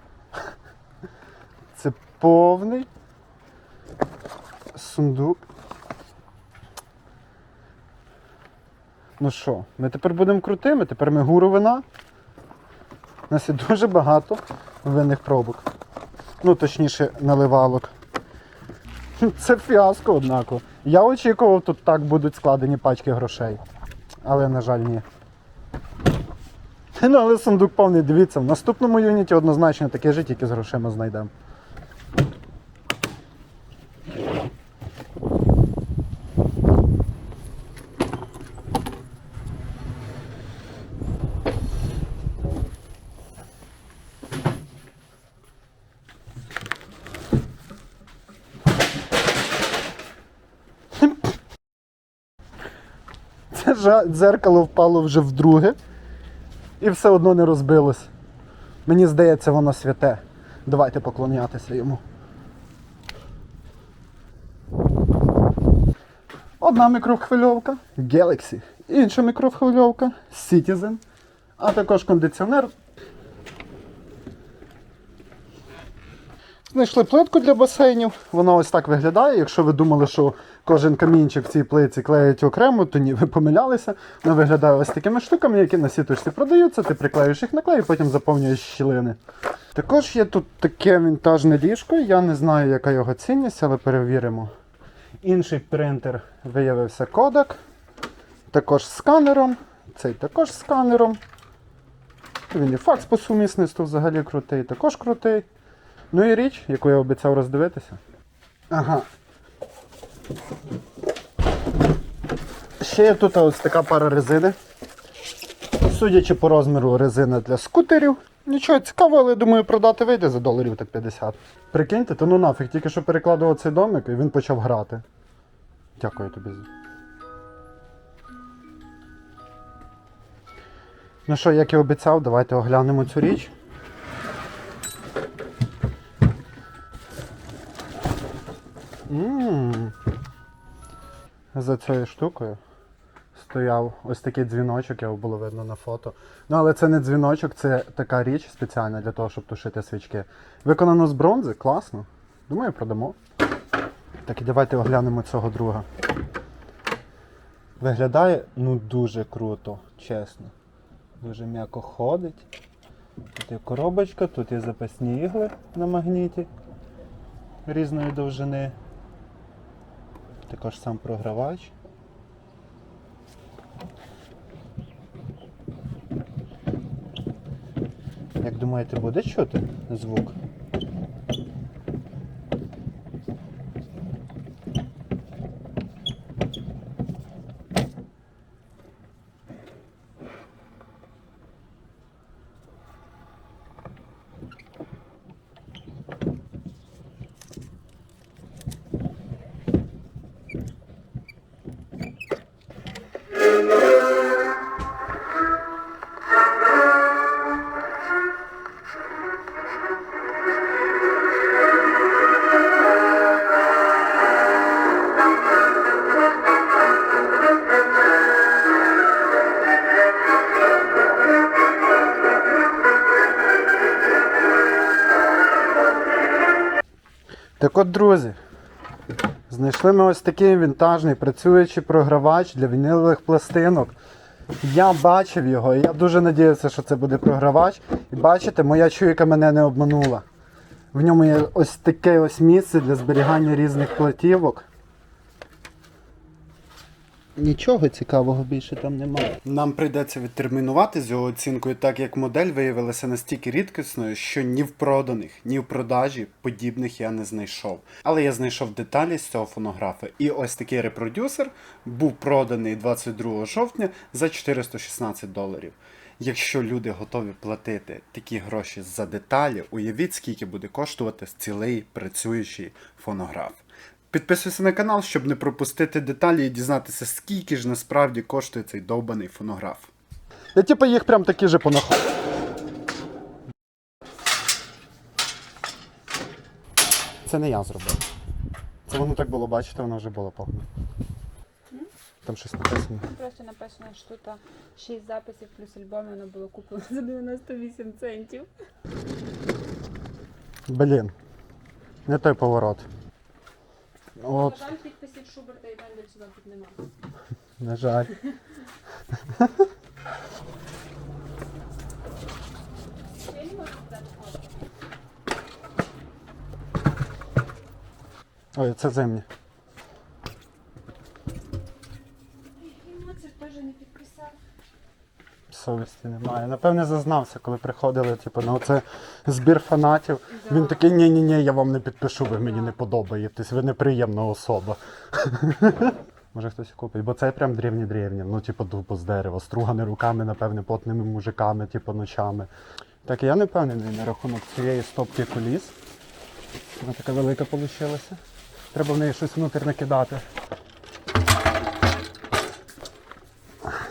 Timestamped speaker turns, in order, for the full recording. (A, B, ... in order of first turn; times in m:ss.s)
0:01.7-0:02.9 A
0:04.7-0:05.4 A
0:09.2-0:11.8 A
0:13.3-0:15.7 A
0:16.4-0:17.9 A
0:19.2-0:23.6 A
0:24.2-0:25.0 A
0:27.0-0:31.3 A
0:53.5-0:55.8 A
0:56.8-0:58.1 A
0:58.9-1:02.0 A
1:06.6-1:11.0 A
1:11.6-1:12.7 A
1:16.7-1:29.2 A
1:29.8-1:34.5 A
1:35.2-1:37.6 A
1:38.5-1:41.2 A
1:42.5-1:45.5 A
1:46.1-1:48.0 A
1:48.7-1:49.1 A
1:52.8-1:54.6 A
1:55.8-2:05.0 A
2:06.0-2:06.7 A
2:11.3-2:13.5 A
2:19.1-2:20.0 A
2:21.5-2:22.6 A
2:23.4-2:33.2 A
2:34.2-2:35.9 A
2:37.8-2:40.5 A
2:41.2-2:42.4 A
2:43.4-2:46.5 A
2:47.6-2:48.8 A
2:50.5-2:51.7 A
2:58.4-3:00.4 A
3:47.6-3:48.4 A
3:49.5-3:54.0 A
3:54.6-4:00.3 A
4:00.9-4:04.7 A
4:07.4-4:10.7 A
4:10.0-4:39.9 B
4:40.6-4:42.1 A
4:47.3-4:48.0 A
4:48.9-4:50.7 A
4:52.2-4:53.1 A
4:53.1-4:58.5 C
5:00.7-5:01.1 A
5:02.1-5:02.9 A
5:04.2-5:04.7 A
5:04.3-5:06.9 C
5:07.6-5:08.1 A
5:09.3-5:09.7 A
5:13.2-5:14.5 C
5:18.6-5:19.3 A
5:22.6-5:24.4 C
5:25.5-5:42.5 A
5:30.3-5:30.9 C
5:32.3-5:32.8 C
5:43.0-5:45.8 A
5:46.8-5:48.2 A
5:48.7-5:50.2 A